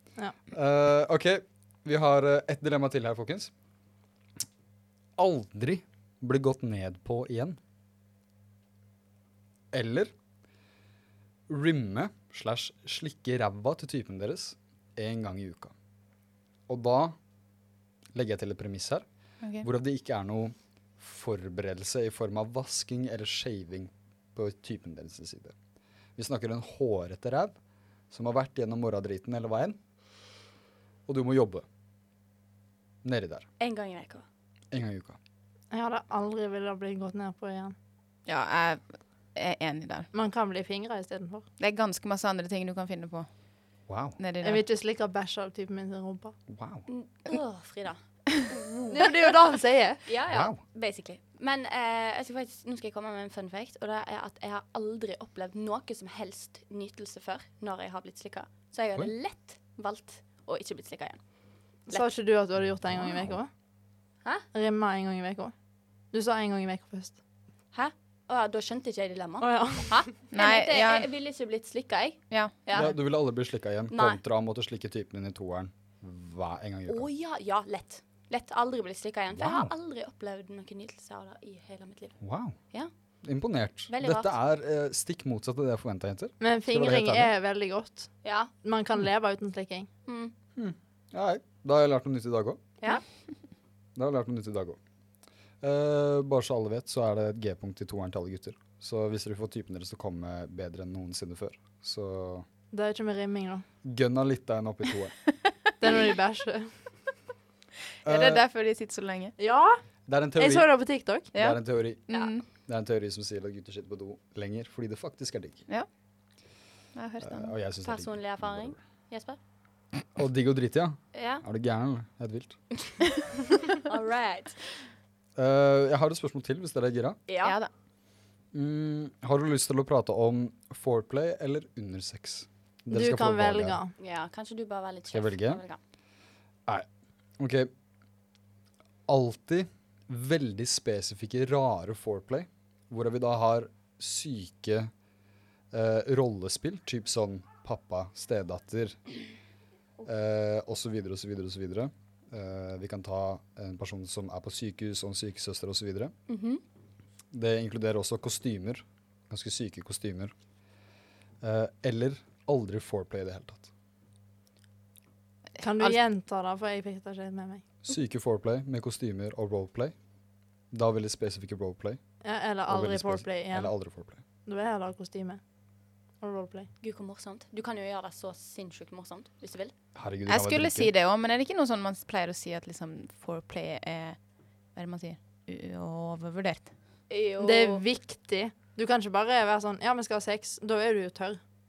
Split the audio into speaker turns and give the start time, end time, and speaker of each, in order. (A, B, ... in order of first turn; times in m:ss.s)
0:00.5-0:03.5 A
0:05.2-0:07.6 A
0:09.7-0:10.1 A
0:11.5-0:15.7 A
0:16.7-0:17.2 A
0:18.1-0:19.0 A
0:19.6-0:25.5 A
0:26.2-0:27.6 A
0:28.1-0:29.8 A
0:31.1-0:31.6 A
0:33.0-0:33.5 A
0:33.6-0:34.2 B
0:34.7-0:35.2 A
0:35.7-0:37.7 C
0:38.2-0:38.8 D
0:39.3-0:40.1 D
0:40.1-0:41.4 C
0:41.6-0:43.3 D
0:43.9-0:44.2 A
0:44.2-0:44.6 D
0:44.4-0:46.3 C
0:46.5-0:46.8 A
0:46.9-0:49.3 B
0:48.9-0:50.0 C
0:50.0-1:01.2 B
0:50.3-0:50.6 A
1:01.9-1:03.5 C
1:04.5-1:05.5 C
1:06.1-1:07.2 C
1:07.7-1:13.0 B
1:09.4-1:10.0 C
1:10.3-1:11.1 D
1:12.7-1:17.1 A
1:13.9-1:14.2 B
1:16.9-1:22.2 B
1:19.3-1:19.7 A
1:22.2-1:22.6 A
1:23.2-1:27.3 A
1:23.9-1:24.3 B
1:26.4-1:28.1 C
1:28.2-1:28.5 B
1:28.6-1:29.9 C
1:30.0-1:30.3 B
1:30.6-1:32.6 A
1:34.0-1:34.8 A
1:35.6-1:42.4 A
1:42.7-1:43.6 C
1:43.8-1:45.1 A
1:45.8-1:46.7 C
1:48.0-1:48.4 A
1:48.0-1:49.3 D
1:49.4-1:49.8 C
1:50.1-1:50.8 A
1:50.4-1:51.3 C
1:51.3-1:52.0 A
1:51.3-1:52.4 D
1:52.1-1:52.4 B
1:52.6-1:55.6 A
1:57.0-1:57.5 D
1:57.2-1:58.8 A
1:57.8-1:59.4 B
2:00.1-2:02.6 A
2:01.1-2:01.4 B
2:03.7-2:04.8 B
2:05.4-2:07.2 A
2:07.3-2:07.6 B
2:07.4-2:07.7 D
2:08.5-2:13.8 A
2:12.9-2:13.9 C
2:14.0-2:15.8 B
2:15.1-2:15.6 A
2:17.4-2:17.7 A
2:19.1-2:24.9 A
2:25.7-2:29.0 A
2:30.0-2:36.1 A
2:36.3-2:36.6 B
2:37.3-2:40.3 A
2:41.4-2:43.7 A
2:45.6-2:47.6 C
2:47.8-2:49.9 A
2:50.7-2:52.0 A
2:52.2-2:53.7 C
2:52.7-2:54.2 A
2:54.4-2:55.4 C
2:56.2-2:56.7 C
2:56.8-2:59.7 B
2:59.9-3:00.9 A
3:00.3-3:04.2 D
3:04.7-3:06.7 D
3:07.1-3:07.8 B
3:07.4-3:11.4 C